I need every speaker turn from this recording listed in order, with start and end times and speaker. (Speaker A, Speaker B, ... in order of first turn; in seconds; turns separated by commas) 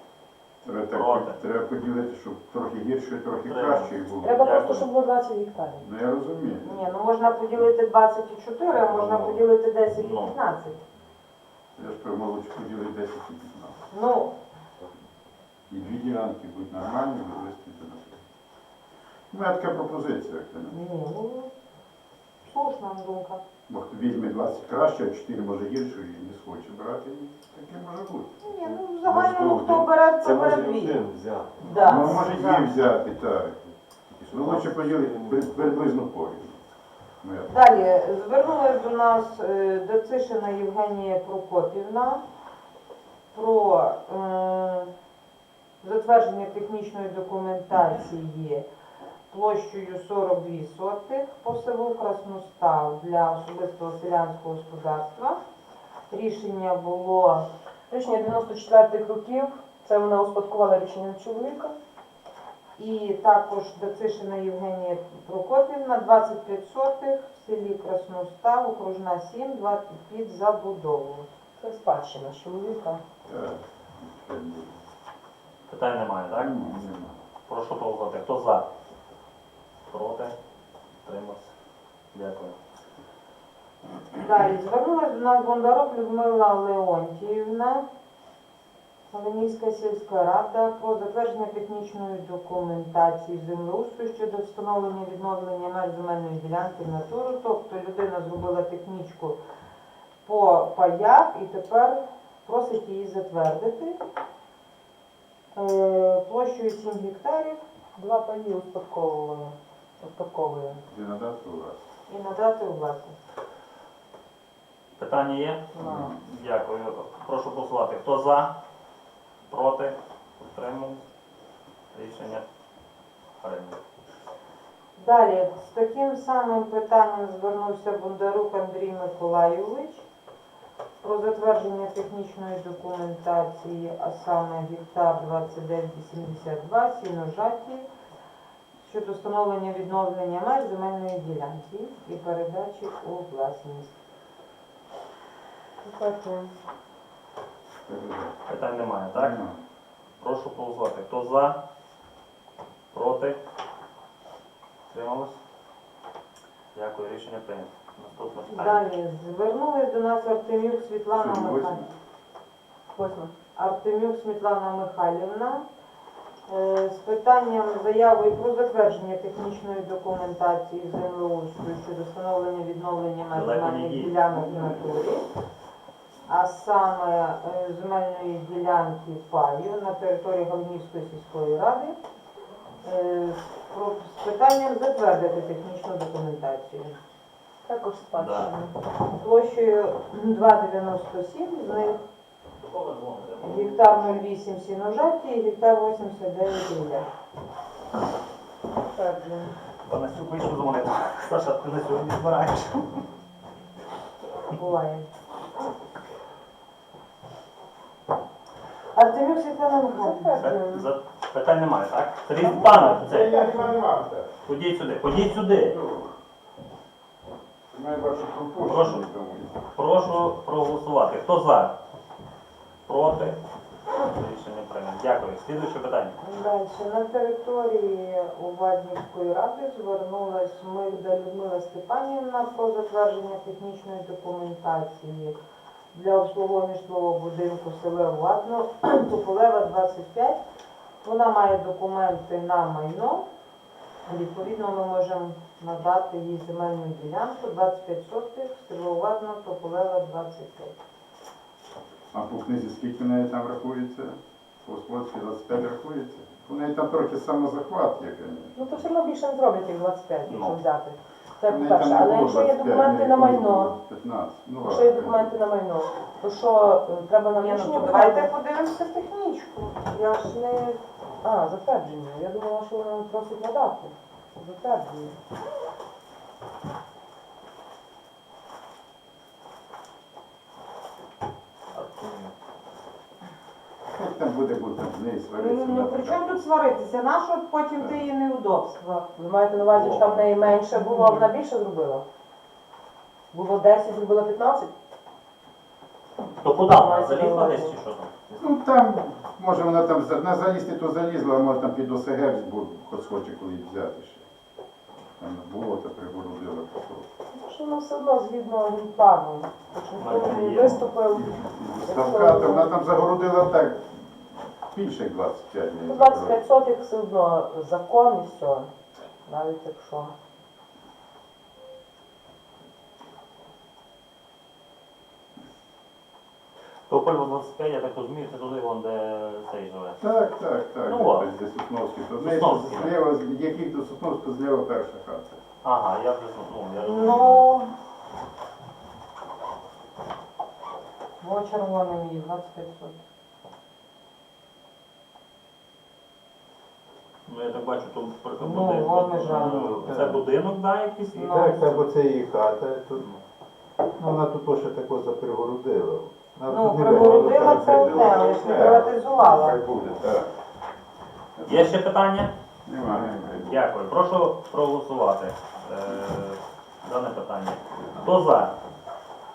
Speaker A: 0.6-4.5, Speaker B: 0.9-1.4, Speaker B: 3.4-4.9, Speaker C: 4.2-5.8, Speaker A: 5.8-6.8, Speaker D: 6.6-10.8, Speaker A: 8.9-9.4, Speaker B: 10.0-10.4, Speaker A: 11.8-13.8, Speaker D: 13.9-14.3, Speaker A: 15.7-18.2, Speaker A: 19.3-20.7, Speaker D: 20.7-21.5, Speaker D: 22.4-23.4, Speaker A: 23.7-29.9, Speaker D: 28.4-31.0, Speaker E: 29.0-32.3, Speaker D: 31.6-32.7, Speaker A: 31.6-36.6, Speaker E: 34.3-35.5, Speaker A: 37.2-37.6, Speaker D: 37.5-42.2, Speaker D: 43.3-44.9, Speaker D: 45.8-48.6, Speaker D: 49.3-55.4, Speaker D: 56.1-57.5, Speaker C: 57.9-61.8, Speaker D: 62.8-71.3, Speaker C: 71.6-73.0, Speaker A: 73.2-74.8, Speaker B: 75.7-76.7, Speaker A: 76.3-77.2, Speaker B: 77.5-78.7, Speaker B: 79.9-80.3, Speaker B: 81.0-81.5, Speaker B: 82.1-82.6, Speaker D: 84.2-87.8, Speaker D: 89.1-99.4, Speaker D: 100.2-104.0, Speaker D: 105.5-107.6, Speaker C: 108.0-110.8, Speaker A: 110.9-111.8, Speaker D: 112.1-113.1, Speaker B: 115.0-118.5, Speaker C: 115.7-116.1, Speaker A: 115.8-116.2, Speaker B: 119.5-121.0, Speaker B: 121.9-122.4, Speaker B: 123.4-123.8, Speaker D: 125.0-130.1, Speaker D: 131.0-137.9, Speaker D: 138.8-143.9, Speaker C: 145.8-146.5, Speaker A: 147.9-148.3, Speaker B: 148.5-149.4, Speaker A: 149.1-149.6, Speaker B: 150.2-151.6, Speaker B: 152.9-153.4, Speaker B: 154.9-155.4, Speaker B: 156.7-158.8, Speaker D: 158.5-161.8, Speaker A: 161.1-161.9, Speaker C: 162.9-163.3, Speaker D: 163.6-165.6, Speaker D: 166.5-175.2, Speaker B: 173.3-174.2, Speaker A: 174.3-174.8, Speaker D: 176.3-182.0, Speaker D: 182.8-187.0, Speaker C: 187.7-188.7, Speaker B: 188.2-188.5, Speaker D: 189.1-192.0, Speaker B: 192.6-194.2, Speaker D: 193.4-197.1, Speaker C: 198.8-199.5, Speaker B: 199.8-203.0, Speaker D: 204.5-205.1, Speaker D: 208.9-210.4, Speaker C: 209.9-210.8, Speaker B: 210.4-213.3, Speaker C: 212.4-213.7, Speaker A: 212.8-214.3, Speaker B: 214.4-215.8, Speaker A: 215.6-216.1, Speaker A: 217.7-219.6, Speaker B: 218.6-219.0, Speaker B: 219.7-221.8, Speaker B: 222.8-223.4, Speaker B: 223.9-226.2, Speaker D: 226.2-235.3, Speaker D: 235.9-240.4, Speaker D: 241.0-243.2, Speaker D: 244.1-250.7, Speaker A: 252.1-258.8, Speaker C: 258.6-263.7, Speaker B: 260.3-260.6, Speaker A: 261.5-265.3, Speaker C: 264.6-268.3, Speaker D: 267.4-270.8, Speaker C: 271.2-275.1, Speaker B: 281.7-282.3, Speaker A: 283.9-286.4, Speaker D: 285.4-289.1, Speaker C: 289.1-292.0, Speaker B: 289.7-290.5, Speaker D: 290.7-291.3, Speaker C: 293.3-294.7, Speaker B: 296.4-298.1, Speaker C: 296.6-297.8, Speaker A: 298.4-304.2, Speaker A: 305.2-307.1, Speaker C: 307.3-312.7, Speaker B: 310.0-310.9, Speaker A: 310.8-316.4, Speaker C: 315.9-318.7, Speaker C: 319.2-320.1, Speaker B: 326.9-330.0, Speaker A: 330.0-335.4, Speaker B: 330.8-331.3, Speaker B: 332.2-332.9, Speaker B: 335.6-337.5, Speaker D: 336.8-337.7, Speaker D: 341.2-343.0, Speaker B: 347.3-351.9, Speaker D: 348.4-349.9, Speaker A: 349.3-350.2, Speaker D: 351.1-351.7, Speaker E: 351.6-352.8, Speaker A: 351.6-351.9, Speaker E: 354.0-356.3, Speaker A: 355.1-355.6, Speaker A: 356.4-360.3, Speaker D: 356.5-359.6, Speaker E: 356.9-358.8, Speaker A: 361.4-361.7, Speaker B: 361.4-362.3, Speaker A: 362.6-363.6, Speaker B: 363.4-368.5